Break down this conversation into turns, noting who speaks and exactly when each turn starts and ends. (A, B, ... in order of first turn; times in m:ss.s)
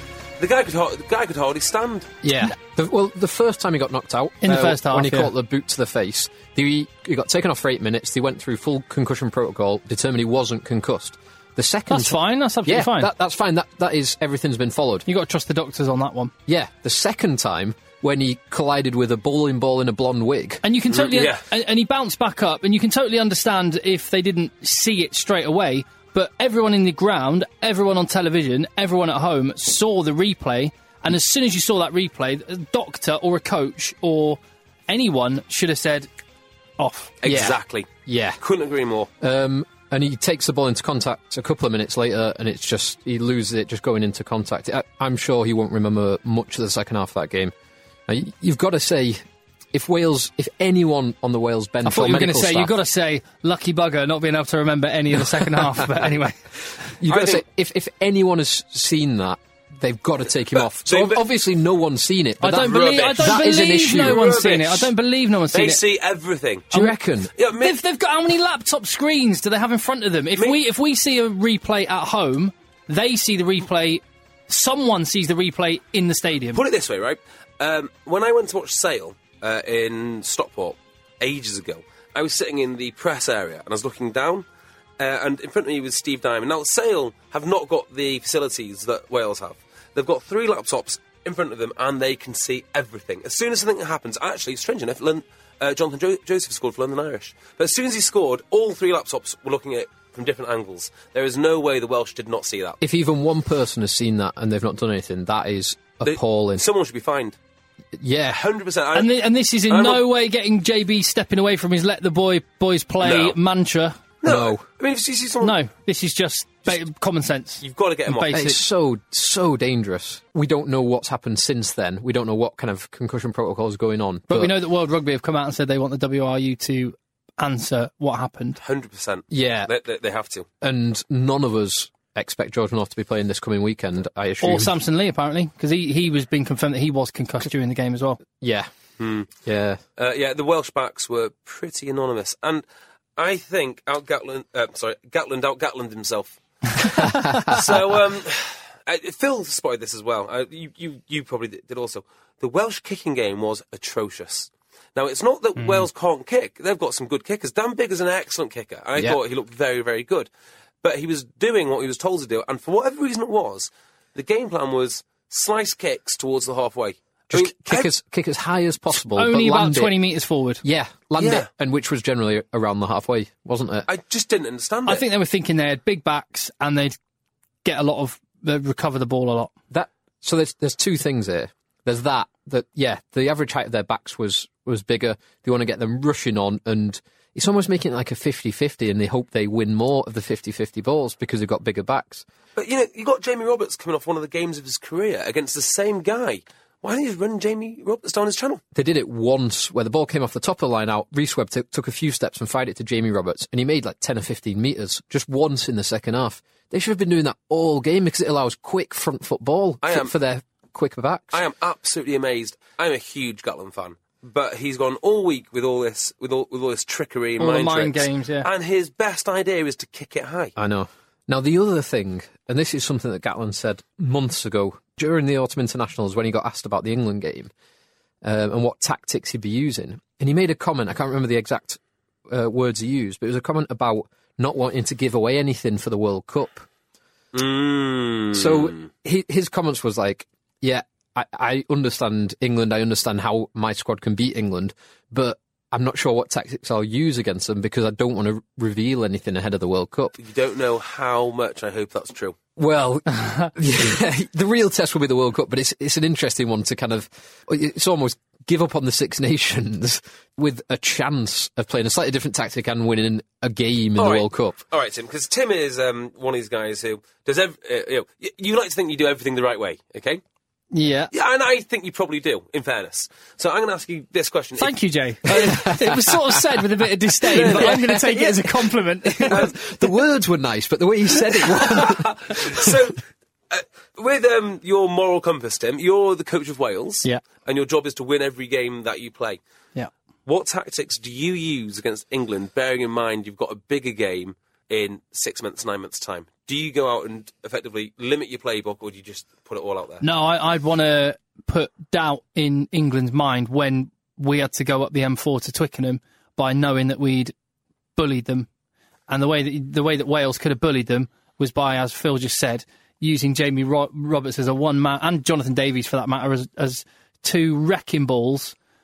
0:00.4-0:02.1 A
0:02.2-0:15.0 B
0:04.4-0:05.3 C
0:11.9-0:13.1 C
0:15.1-0:16.3 C
0:16.5-0:20.6 B
0:20.6-0:36.1 C
0:20.9-0:21.4 A
0:36.8-0:37.1 C
0:37.2-0:37.9 A
0:37.2-0:38.4 B
0:38.4-0:39.1 A
0:39.2-0:47.5 B
0:48.1-0:49.2 B
0:49.7-0:52.7 B
0:51.8-0:56.4 C
0:55.6-0:55.9 B
0:57.0-1:04.2 B
0:57.1-0:57.4 A
1:00.8-1:01.2 A
1:02.4-1:05.8 C
1:02.6-1:04.9 A
1:05.5-1:06.7 A
1:06.7-1:07.3 B
1:07.4-1:07.8 A
1:07.5-1:16.6 C
1:16.5-1:24.4 A
1:25.0-1:42.8 A
1:42.8-1:46.6 B
1:46.0-1:47.4 A
1:47.9-1:48.4 B
1:48.4-1:49.1 A
1:48.9-1:54.0 C
1:49.7-1:50.0 A
1:53.0-1:53.4 A
1:54.2-1:55.6 A
1:54.2-1:54.6 B
1:55.4-1:58.6 C
1:57.6-1:58.4 A
1:58.3-2:04.5 B
2:04.3-2:08.6 C
2:08.6-2:10.5 A
2:09.3-2:09.7 B
2:10.6-2:14.7 B
2:14.4-2:18.2 C
2:18.4-2:18.7 B
2:19.0-2:19.3 A
2:19.4-2:19.8 B
2:20.0-2:22.6 A
2:23.2-2:26.9 A
2:27.0-2:27.3 C
2:27.0-2:27.6 B
2:27.4-2:40.3 A
2:35.6-2:35.8 C
2:40.8-2:47.9 A
2:47.3-2:50.0 B
2:49.1-2:50.6 C
2:50.6-2:53.9 B
2:51.2-2:51.5 A
2:53.9-2:55.0 A
2:54.8-2:57.0 C
2:57.6-2:59.5 C
2:59.7-3:12.2 B
3:12.6-3:18.6 A
3:18.7-3:31.4 B
3:29.8-3:30.1 A
3:31.3-3:40.6 A
3:37.4-3:38.5 C
3:40.6-3:47.5 B
3:48.2-3:56.7 B
3:57.3-3:58.9 A
3:58.3-4:10.2 B
4:10.2-4:12.4 A
4:12.6-4:24.6 B
4:13.2-4:13.5 C
4:24.0-4:30.2 A
4:30.7-4:31.1 C
4:31.1-4:34.8 A
4:34.6-4:39.4 C
4:35.3-4:36.2 B
4:37.3-4:38.1 B
4:37.3-4:38.3 A
4:39.2-4:42.7 B
4:39.3-4:39.5 A
4:41.6-4:43.0 A
4:43.5-4:49.4 A
4:50.2-5:00.0 A
5:00.0-5:07.3 C
5:08.0-5:08.5 C
5:09.1-5:18.5 C